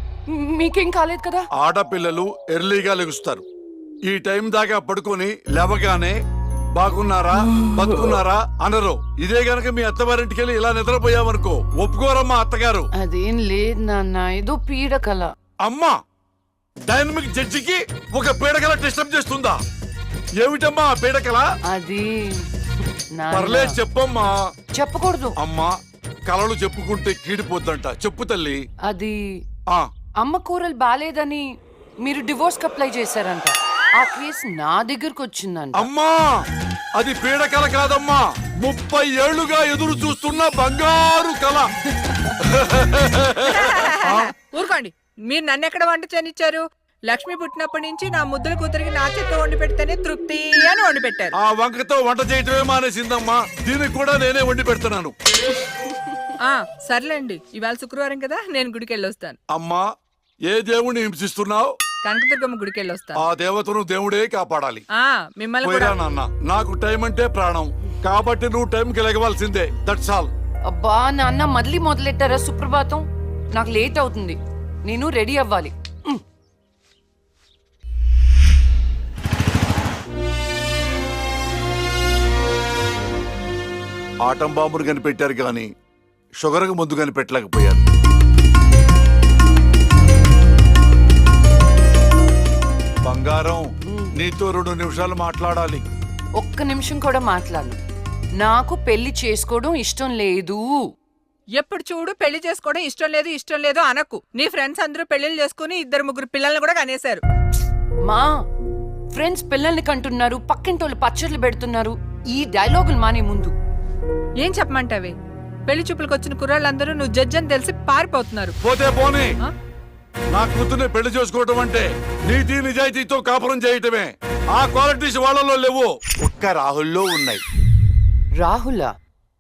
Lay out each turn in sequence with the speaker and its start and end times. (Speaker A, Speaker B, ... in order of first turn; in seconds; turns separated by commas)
Speaker A: 0.3-1.5, Speaker B: 1.6-3.4, Speaker B: 4.1-6.2, Speaker B: 6.7-12.9, Speaker A: 7.6-7.9, Speaker A: 13.0-15.3, Speaker B: 15.6-15.9, Speaker B: 16.9-19.6, Speaker B: 20.4-21.4, Speaker A: 21.7-22.4, Speaker A: 23.2-23.8, Speaker B: 23.3-24.3, Speaker A: 24.8-25.4, Speaker B: 25.4-25.7, Speaker B: 26.3-28.6, Speaker A: 28.9-29.1, Speaker A: 30.2-31.4, Speaker A: 32.0-35.9, Speaker B: 35.8-36.3, Speaker B: 37.0-41.7, Speaker B: 42.5-44.3, Speaker C: 43.5-51.3, Speaker B: 51.4-55.1, Speaker C: 56.4-59.4, Speaker B: 59.5-59.9, Speaker B: 60.5-61.7, Speaker C: 62.0-63.2, Speaker B: 63.2-64.8, Speaker C: 65.4-66.0, Speaker B: 65.6-70.3, Speaker A: 70.7-73.0, Speaker A: 73.5-76.2, Speaker B: 84.3-85.7, Speaker B: 86.4-87.9, Speaker B: 93.0-93.7, Speaker B: 94.2-95.8, Speaker A: 96.4-97.8, Speaker A: 98.4-100.7, Speaker C: 101.6-107.2, Speaker A: 109.1-113.5, Speaker C: 114.4-115.2, Speaker C: 115.7-118.5, Speaker B: 118.6-119.3, Speaker B: 120.3-127.4, Speaker A: 128.4-128.9